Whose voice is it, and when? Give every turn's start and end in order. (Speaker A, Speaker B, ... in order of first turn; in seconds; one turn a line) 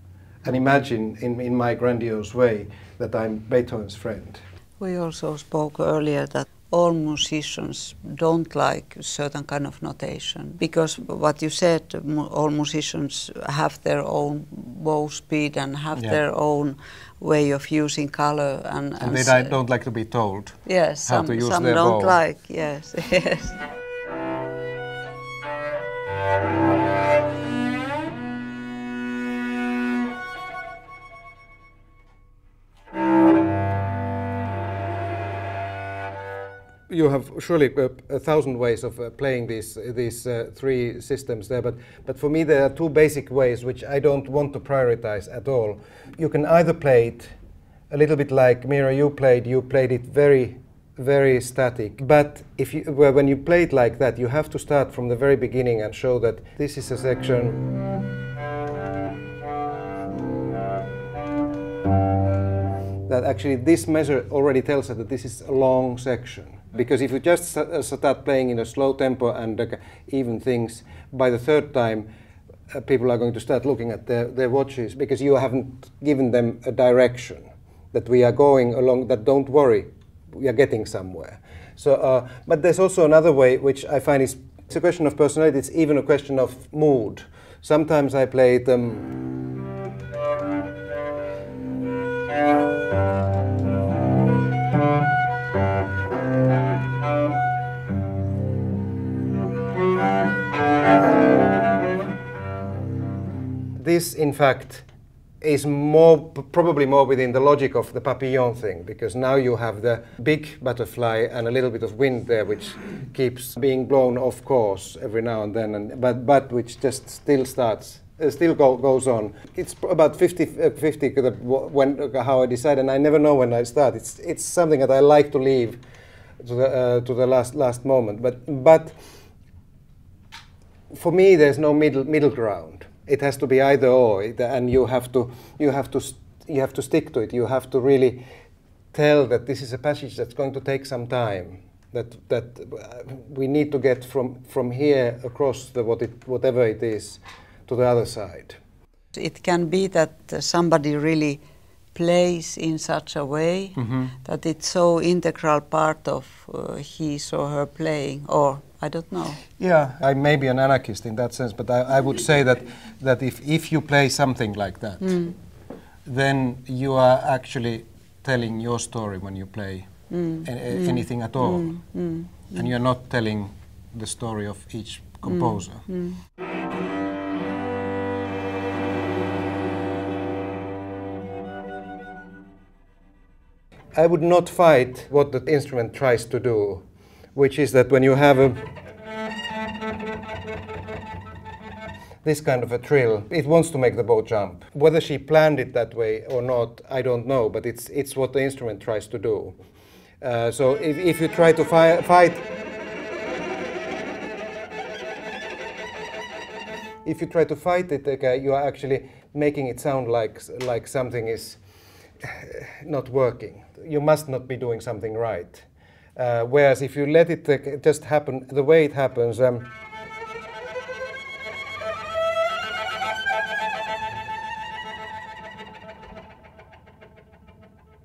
Speaker A: 0.4-4.4
Speaker B: 4.8-19.5
Speaker A: 19.0-22.2
Speaker B: 20.6-23.6
Speaker A: 36.9-47.3
Speaker A: 47.9-57.6
Speaker A: 63.1-72.1
Speaker A: 72.7-89.1
Speaker A: 103.8-104.9
Speaker A: 105.4-125.8
Speaker A: 126.4-129.0
Speaker A: 130.9-138.2
Speaker A: 138.9-148.6
Speaker B: 149.2-151.4
Speaker B: 151.9-159.4
Speaker A: 153.8-154.1
Speaker A: 159.6-165.2
Speaker B: 165.0-165.3
Speaker A: 166.0-169.9
Speaker B: 170.1-172.6
Speaker A: 170.4-171.8
Speaker A: 172.5-175.9
Speaker B: 175.2-176.2
Speaker A: 183.9-186.8
Speaker A: 187.3-188.6
Speaker A: 192.2-199.5
Speaker A: 200.2-202.4
Speaker A: 207.0-211.6
Speaker A: 212.2-219.7